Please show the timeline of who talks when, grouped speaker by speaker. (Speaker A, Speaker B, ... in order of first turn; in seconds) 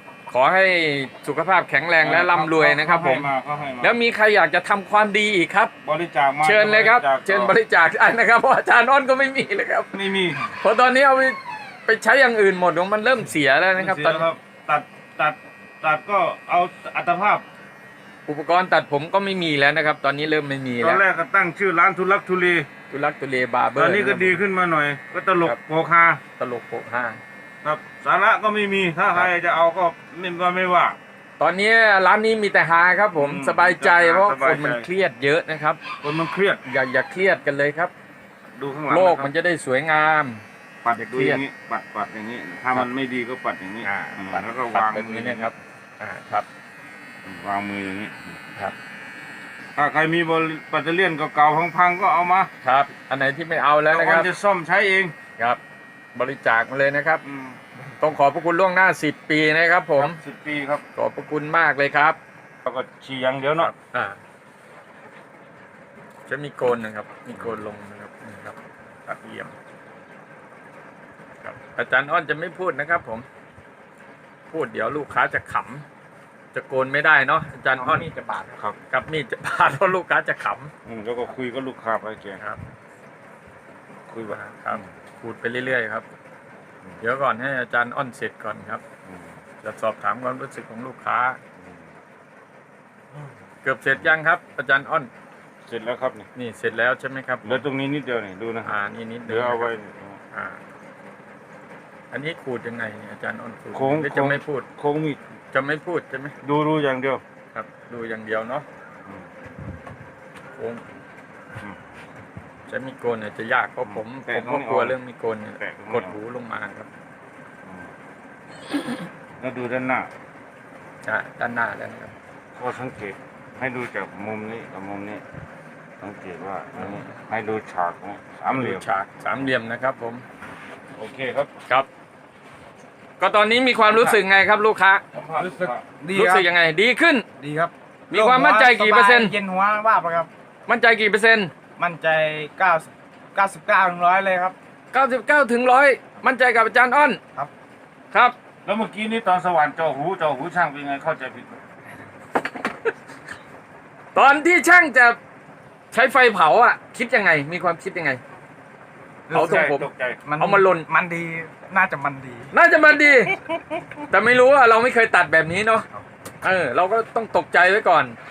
Speaker A: 0.3-3.3, 3.8-5.7, 6.4-9.9, 10.5-14.2, 18.3-21.0, 22.9-24.4, 26.4-27.2, 31.4-35.8, 36.6-37.9, 38.9-40.4, 41.0-41.4, 43.8-46.5, 52.6-54.3, 56.1-57.2, 58.0-60.2, 61.0-62.2, 63.6-64.2, 66.3-69.5, 71.4-73.3, 74.5-75.8, 76.5-78.1, 78.9-80.7, 84.3-86.1, 87.0-88.8, 89.6-91.4, 93.6-95.1, 96.3-97.6, 98.6-99.7, 100.3-100.6, 102.1-104.7, 105.5-106.4, 107.5-108.7, 110.6-110.8, 112.7-116.9, 121.0-122.1, 126.8-127.1, 128.5-130.2, 133.2-135.0, 136.1-137.3, 138.1-139.3, 140.7-141.5, 144.9-147.2, 154.1-155.2, 155.9-158.2, 159.3-159.9, 160.4-160.9, 162.5-163.3, 164.1-165.9, 166.4-168.2
Speaker B: 2.0-4.0, 5.8-7.5, 9.9-10.4, 13.8-17.4, 20.8-22.7, 23.8-26.2, 27.6-31.0, 33.2-34.9, 36.0-36.6, 38.6-39.3, 40.8-45.5, 47.2-48.3, 49.8-52.5, 53.9-55.1, 57.2-57.6, 60.0-60.8, 62.6-63.7, 80.8-82.4, 84.1-84.9, 89.0-89.3, 91.6-91.9, 95.7-96.3, 97.4-98.7, 99.3-100.2, 103.7-105.2, 106.4-107.2, 113.8-115.0, 115.6-116.2, 117.6-117.9, 119.4-120.1, 122.5-125.2, 126.0-128.9, 131.0-131.5, 135.1-135.8, 148.7-151.6, 159.3-160.2, 163.5-163.8
Speaker C: 77.8-78.6, 133.9-134.2, 135.4-136.5, 137.4-140.3, 141.8-144.6, 159.3-159.7, 160.2-162.5